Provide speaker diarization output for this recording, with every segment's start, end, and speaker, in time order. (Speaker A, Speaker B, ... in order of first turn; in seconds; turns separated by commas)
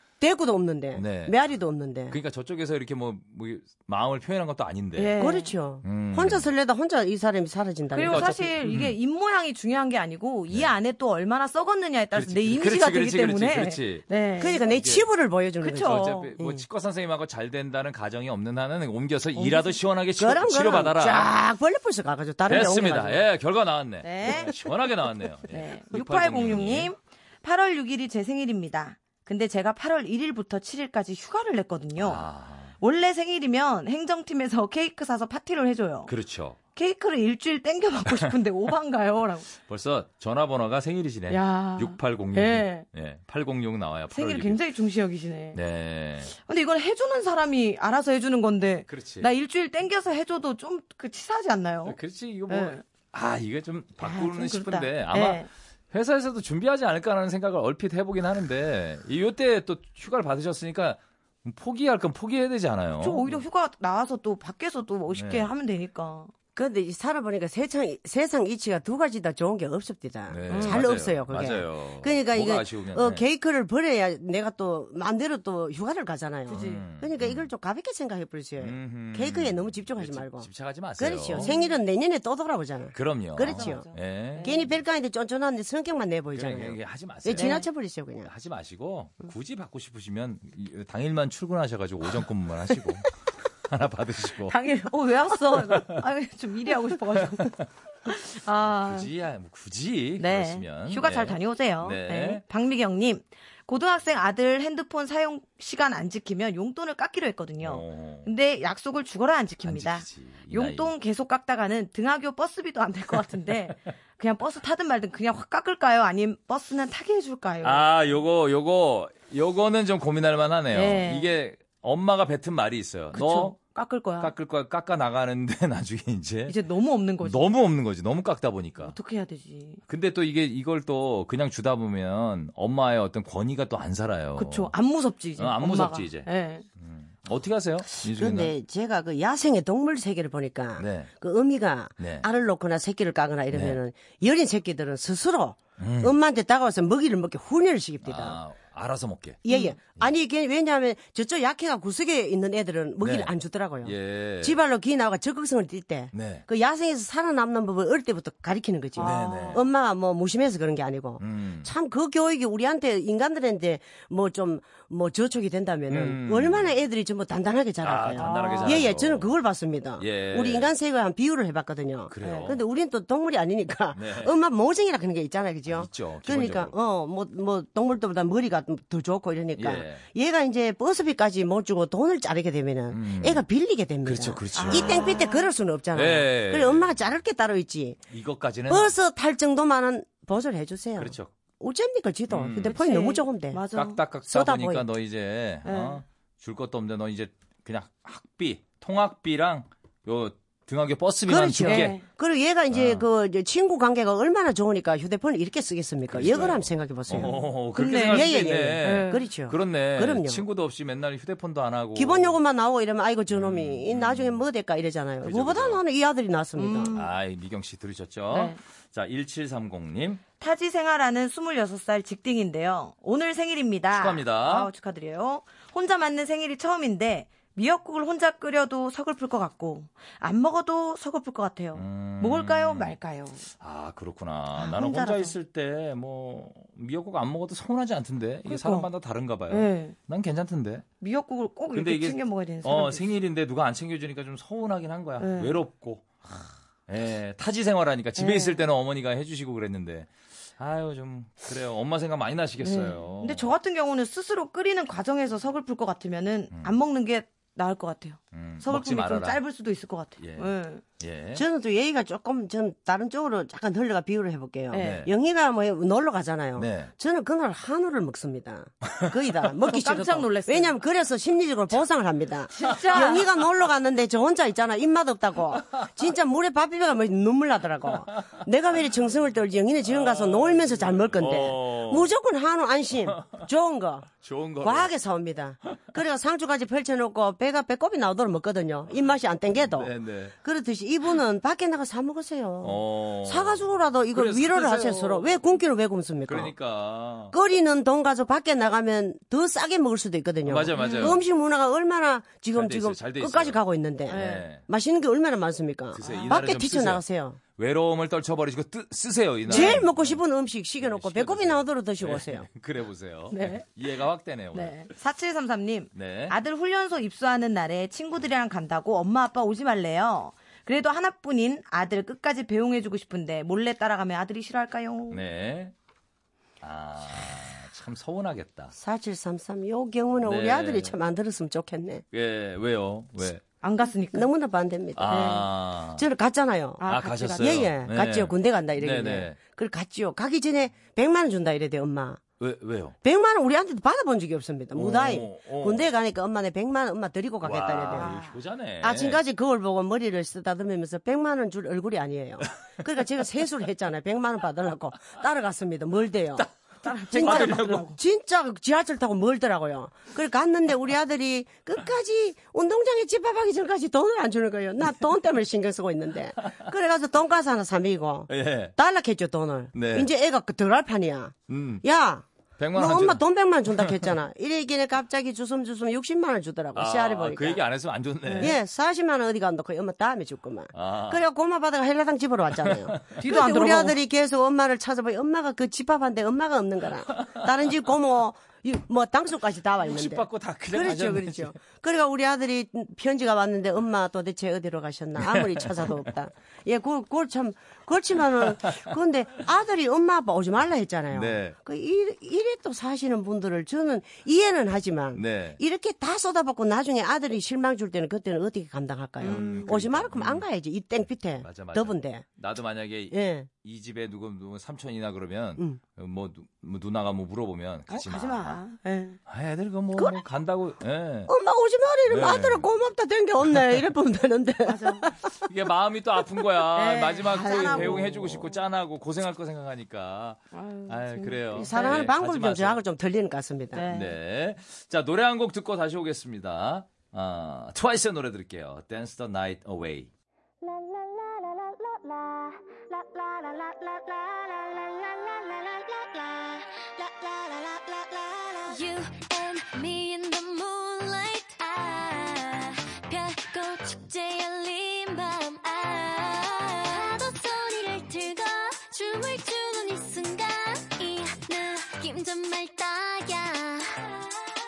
Speaker A: 0.2-2.2, Speaker B: 0.9-1.4, Speaker B: 2.1-5.2, Speaker C: 5.0-5.5, Speaker A: 5.2-8.5, Speaker B: 5.8-6.5, Speaker C: 7.9-14.7, Speaker B: 8.1-8.9, Speaker B: 12.1-14.1, Speaker A: 14.4-16.6, Speaker B: 14.7-15.1, Speaker C: 15.6-16.3, Speaker B: 15.8-21.3, Speaker C: 19.4-19.8, Speaker A: 20.2-23.2, Speaker B: 22.5-26.9, Speaker C: 24.0-24.6, Speaker C: 25.5-32.2, Speaker B: 32.0-32.7, Speaker C: 32.8-36.1, Speaker B: 36.1-36.6, Speaker C: 36.8-39.5, Speaker B: 39.6-44.6, Speaker C: 41.3-42.9, Speaker C: 44.1-45.6, Speaker B: 45.5-46.3, Speaker C: 46.3-52.0, Speaker B: 48.9-49.3, Speaker B: 51.9-63.4, Speaker C: 52.5-52.8, Speaker C: 54.0-55.5, Speaker C: 63.0-66.3, Speaker B: 65.1-65.5, Speaker A: 66.6-83.8, Speaker B: 70.3-73.2, Speaker C: 70.5-70.9, Speaker C: 76.5-76.8, Speaker B: 76.6-77.5, Speaker B: 78.6-81.5, Speaker C: 81.3-81.8, Speaker B: 82.9-84.7, Speaker C: 83.5-84.6, Speaker A: 84.4-88.3, Speaker B: 86.3-87.6, Speaker C: 87.4-87.7, Speaker B: 88.2-94.6, Speaker C: 94.5-99.1, Speaker B: 95.6-96.0, Speaker B: 97.2-97.7, Speaker B: 98.7-102.4, Speaker C: 100.2-117.9, Speaker B: 107.6-108.3, Speaker B: 109.7-110.9, Speaker B: 117.6-123.6, Speaker C: 120.7-121.3, Speaker C: 123.1-124.3, Speaker B: 124.2-126.6, Speaker C: 126.5-127.4, Speaker B: 127.2-129.0, Speaker C: 128.8-129.8, Speaker B: 129.9-134.7, Speaker C: 134.4-136.7, Speaker B: 135.4-136.3, Speaker B: 136.8-138.5, Speaker A: 138.0-148.4, Speaker B: 140.8-141.1, Speaker B: 142.0-142.3, Speaker B: 143.5-143.8, Speaker B: 145.8-146.2, Speaker B: 148.0-149.4, Speaker A: 149.4-188.0, Speaker C: 149.5-149.8, Speaker B: 153.0-153.3, Speaker B: 153.8-154.6, Speaker B: 156.1-156.4, Speaker C: 158.9-159.6, Speaker B: 159.0-159.6, Speaker B: 161.2-161.7, Speaker B: 165.9-166.8, Speaker B: 167.8-169.3, Speaker C: 168.2-168.9, Speaker B: 170.0-170.7, Speaker B: 172.1-172.6, Speaker C: 172.2-172.5, Speaker B: 173.9-174.3, Speaker B: 175.7-176.8, Speaker B: 179.6-180.0, Speaker B: 182.9-183.4, Speaker B: 184.1-185.1, Speaker C: 184.5-185.5, Speaker B: 185.9-187.0, Speaker B: 188.1-188.9, Speaker A: 188.7-193.6, Speaker B: 191.0-191.3, Speaker B: 192.3-192.8, Speaker C: 192.6-194.0, Speaker B: 193.8-202.0, Speaker A: 194.3-194.8, Speaker C: 195.7-196.0, Speaker A: 201.3-210.4, Speaker C: 201.6-202.0, Speaker B: 202.7-203.1, Speaker B: 206.1-212.4, Speaker C: 207.2-208.3, Speaker C: 208.8-209.2, Speaker A: 212.0-216.9, Speaker B: 213.3-214.4, Speaker B: 215.2-215.8, Speaker C: 216.6-217.1, Speaker B: 216.9-220.2, Speaker C: 218.3-218.6, Speaker C: 220.4-233.5, Speaker B: 223.9-224.7, Speaker B: 231.8-232.9, Speaker B: 233.6-240.8, Speaker C: 234.6-235.3, Speaker C: 238.5-238.9, Speaker C: 239.5-239.9, Speaker C: 241.0-243.1, Speaker B: 241.7-253.5, Speaker C: 245.2-245.6, Speaker C: 248.2-248.6, Speaker C: 252.6-260.8, Speaker B: 258.3-259.4, Speaker B: 260.2-261.4, Speaker A: 261.4-284.1, Speaker C: 264.7-265.0, Speaker B: 264.8-265.1, Speaker B: 266.6-266.9, Speaker C: 269.7-270.8, Speaker C: 272.5-273.2, Speaker B: 279.8-282.1, Speaker B: 283.1-283.4, Speaker B: 284.2-284.9, Speaker A: 284.6-289.9, Speaker B: 289.6-290.3, Speaker A: 290.4-296.5, Speaker B: 292.6-295.4, Speaker B: 296.3-297.3, Speaker A: 297.3-307.4, Speaker B: 300.4-301.2, Speaker C: 300.8-301.1, Speaker B: 302.5-304.6, Speaker C: 304.1-304.5, Speaker B: 305.9-307.0, Speaker C: 306.0-306.4, Speaker B: 307.6-310.2, Speaker A: 309.5-312.5, Speaker C: 309.5-309.8, Speaker B: 310.8-314.9, Speaker C: 313.3-313.7, Speaker C: 314.5-325.2, Speaker B: 315.9-316.4, Speaker B: 325.1-325.7, Speaker B: 326.6-328.7, Speaker A: 328.7-332.0, Speaker B: 330.2-330.9, Speaker B: 332.1-333.4, Speaker C: 333.6-334.3, Speaker A: 334.1-335.4, Speaker B: 335.0-336.0, Speaker C: 335.1-335.5, Speaker A: 335.9-336.8, Speaker C: 336.8-337.6, Speaker B: 336.9-339.4, Speaker A: 337.4-342.2, Speaker B: 342.4-342.9, Speaker A: 343.0-348.1, Speaker B: 344.7-345.9, Speaker B: 347.4-349.2, Speaker C: 347.9-348.3, Speaker A: 348.8-356.5, Speaker C: 356.8-358.0, Speaker B: 357.0-357.9, Speaker A: 357.1-377.6, Speaker B: 368.3-368.7, Speaker B: 369.7-370.1, Speaker B: 371.5-371.8, Speaker B: 372.6-373.2, Speaker B: 373.8-374.1, Speaker B: 376.8-378.6, Speaker C: 378.3-378.6, Speaker A: 378.4-412.3, Speaker B: 380.7-381.2, Speaker B: 382.6-383.2, Speaker C: 383.2-384.0, Speaker B: 389.8-391.6, Speaker B: 395.3-395.7, Speaker B: 401.1-401.6, Speaker B: 405.1-405.6, Speaker C: 409.2-409.6, Speaker B: 409.2-410.5, Speaker B: 411.4-418.6, Speaker A: 413.1-413.5, Speaker C: 417.9-419.2, Speaker B: 419.3-421.3, Speaker A: 421.3-425.3, Speaker B: 422.1-422.7, Speaker C: 424.7-425.1, Speaker B: 425.4-432.8, Speaker C: 426.8-428.6, Speaker A: 427.5-428.0, Speaker C: 430.5-432.0, Speaker A: 431.5-433.9, Speaker C: 433.7-434.1, Speaker B: 433.9-440.1, Speaker D: 441.7-442.6, Speaker D: 443.1-464.1